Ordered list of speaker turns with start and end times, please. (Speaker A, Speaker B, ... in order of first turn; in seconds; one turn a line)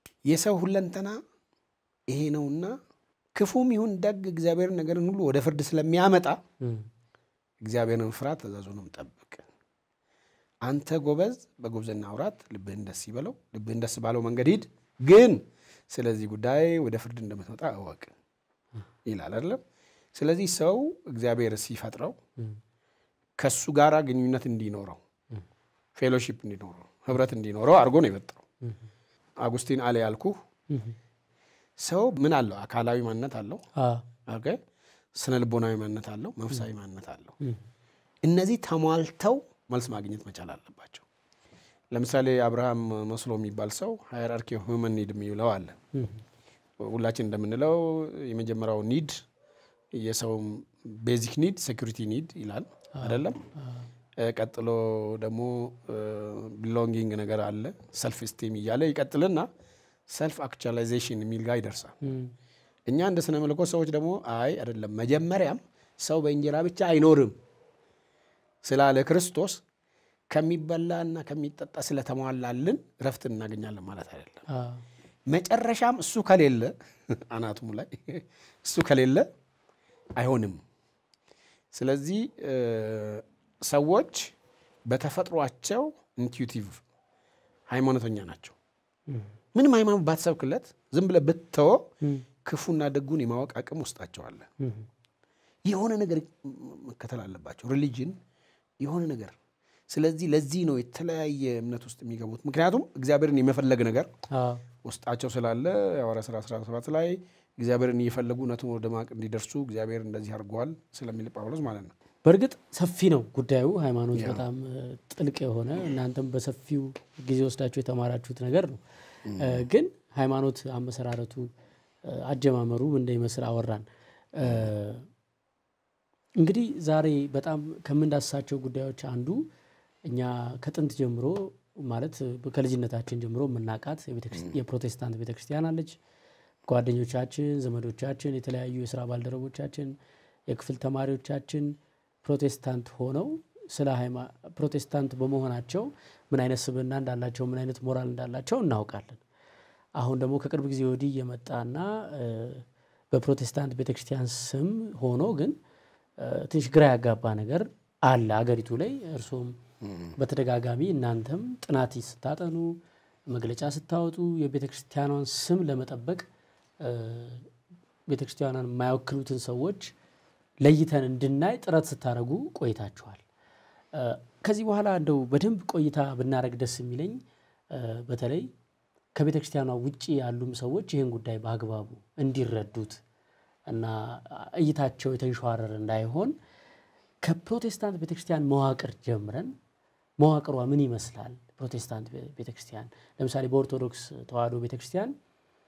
Speaker A: 0.3-1.2
Speaker A: 2.1-2.8
Speaker A: 3.4-6.4
Speaker B: 6.6-6.9
Speaker A: 7.6-9.4
Speaker A: 10.6-18.1
Speaker A: 19.1-19.6
Speaker A: 20.1-22.2
Speaker A: 23.4-25.0
Speaker A: 26.0-28.4
Speaker A: 29.4-30.4
Speaker B: 30.7-31.0
Speaker A: 31.8-33.6
Speaker B: 33.8-34.0
Speaker A: 34.3-34.6
Speaker A: 35.1-37.4
Speaker A: 38.2-41.0
Speaker A: 41.9-45.8
Speaker B: 45.9-46.2
Speaker A: 46.8-49.2
Speaker A: 49.9-53.4
Speaker B: 53.0-53.9
Speaker A: 54.2-59.5
Speaker A: 60.1-62.0
Speaker B: 62.0-62.3
Speaker A: 62.9-67.3
Speaker A: 68.6-69.6
Speaker A: 70.3-74.4
Speaker B: 74.5-74.8
Speaker A: 75.3-79.3
Speaker A: 80.2-80.6
Speaker A: 81.7-84.3
Speaker A: 84.9-86.8
Speaker A: 87.7-88.6
Speaker B: 89.1-89.3
Speaker A: 89.5-91.9
Speaker A: 92.4-94.5
Speaker B: 94.6-94.9
Speaker A: 95.7-98.2
Speaker A: 98.8-99.3
Speaker A: 99.9-104.1
Speaker B: 104.3-104.6
Speaker A: 104.8-111.9
Speaker B: 112.2-118.8
Speaker A: 114.1-114.4
Speaker A: 119.2-119.6
Speaker B: 119.4-121.5
Speaker B: 122.0-125.1
Speaker A: 124.4-124.7
Speaker B: 126.4-129.5
Speaker B: 130.1-136.0
Speaker B: 136.7-140.0
Speaker B: 140.5-149.2
Speaker B: 150.0-155.6
Speaker B: 156.2-159.6
Speaker A: 159.8-160.1
Speaker B: 160.2-166.2
Speaker B: 166.8-167.5
Speaker B: 168.1-169.9
Speaker B: 170.6-173.2
Speaker B: 173.9-177.2
Speaker B: 177.7-178.5
Speaker B: 179.1-183.0
Speaker B: 183.7-186.3
Speaker B: 187.2-189.5
Speaker B: 190.2-195.2